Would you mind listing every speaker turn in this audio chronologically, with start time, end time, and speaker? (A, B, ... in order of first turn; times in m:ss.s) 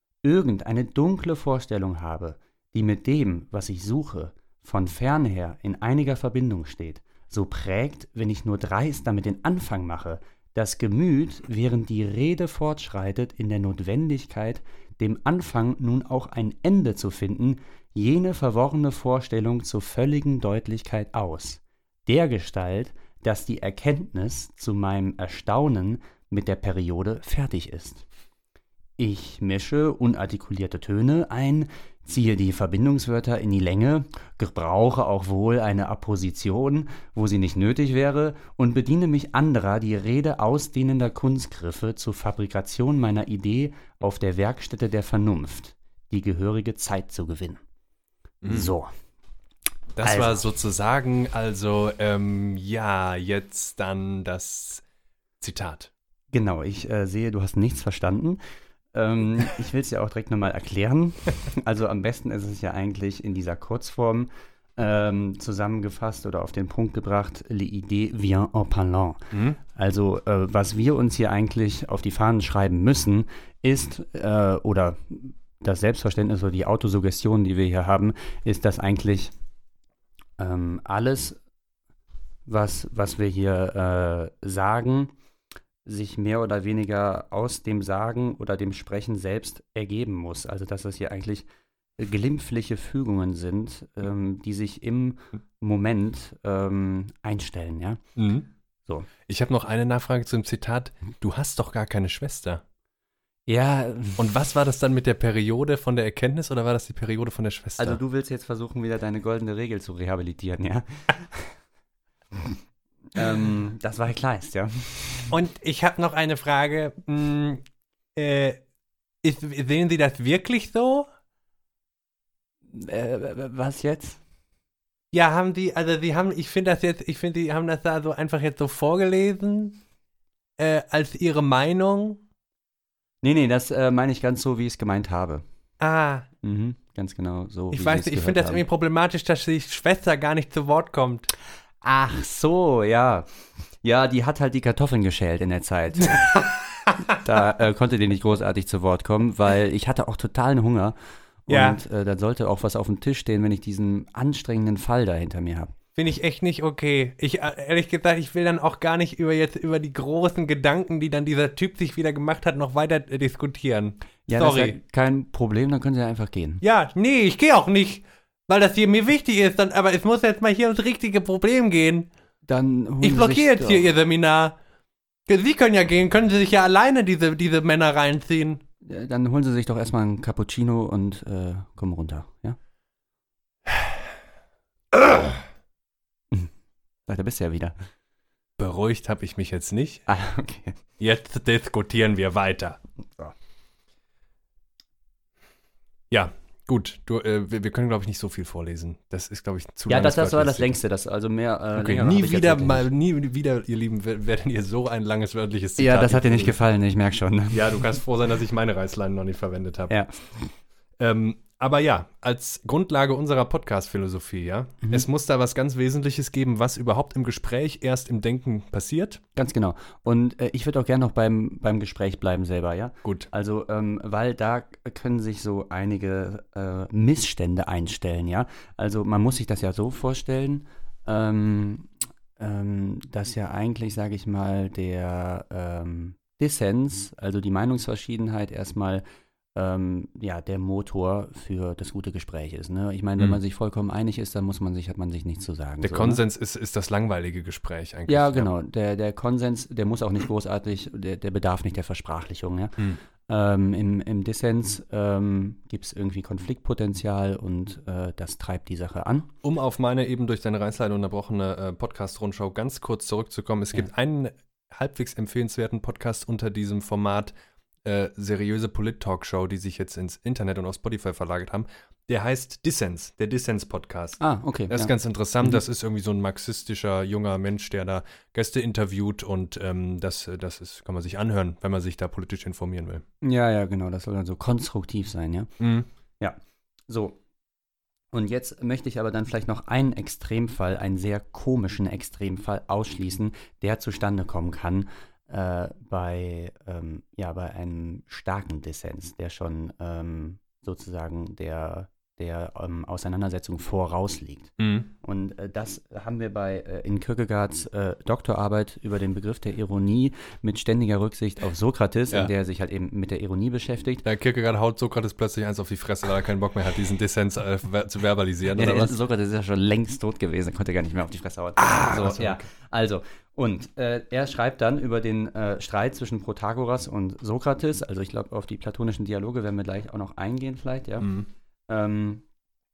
0:00.2-0:28.0 A
0:29.0-0:47.6 A
0:48.4-0:48.7 B
0:48.5-0:48.9 A
0:50.0-0:54.8 B
0:50.0-0:50.4 A
0:55.4-0:55.9 B
0:56.3-0:58.4 A
0:58.9-1:19.3 A
1:09.3-1:09.6 B
1:20.4-1:21.4 A
1:22.5-1:25.1 A
1:25.8-1:31.5 A
1:32.0-1:38.0 A
1:38.2-1:38.5 B
1:39.3-1:42.6 B
1:43.5-1:44.2 A
1:44.2-1:48.0 B
1:47.8-1:51.6 A
1:53.1-1:55.4 A
1:55.3-1:57.6 B
1:58.2-1:58.6 B
1:59.2-2:01.1 B
2:02.7-2:04.2 A
2:05.1-2:09.8 B
2:10.6-2:12.2 B
2:13.2-2:15.4 A
2:15.8-2:16.3 B
2:16.4-2:18.6 A
2:17.7-2:21.3 B
2:21.8-2:26.4 A
2:26.1-2:27.0 B
2:27.1-2:35.8 A
2:31.5-2:31.8 B
2:36.0-2:44.8 B
2:44.3-2:46.6 A
2:46.6-2:52.1 B
2:52.5-2:53.9 A
2:53.0-2:54.6 B
2:55.3-2:58.6 B
2:58.8-3:02.6 A
3:03.7-3:04.0 B
3:04.9-3:05.3 B
3:07.1-3:07.8 A
3:08.6-3:10.1 B
3:10.1-3:10.8 A
3:11.0-3:12.8 B
3:16.1-3:20.7 B
3:19.9-3:22.9 A
3:21.8-3:26.6 B
3:25.8-3:28.0 A
3:27.5-3:30.0 B
3:29.9-3:30.5 A
3:31.0-3:39.2 B
3:39.4-3:59.0 A
3:43.0-3:43.3 B
3:59.6-4:06.2 A
4:05.8-4:08.5 B
4:08.1-4:19.3 A
4:19.4-4:27.3 B
4:27.8-4:43.0 B
4:34.2-4:35.6 A
4:43.2-4:45.5 A
4:45.6-4:45.9 B
4:46.9-4:47.2 A
4:48.1-5:14.0 A
5:04.6-5:04.9 B
5:14.0-5:19.0 B
5:18.6-5:31.1 A
5:21.6-5:22.5 B
5:31.0-5:31.3 B
5:31.7-5:32.2 A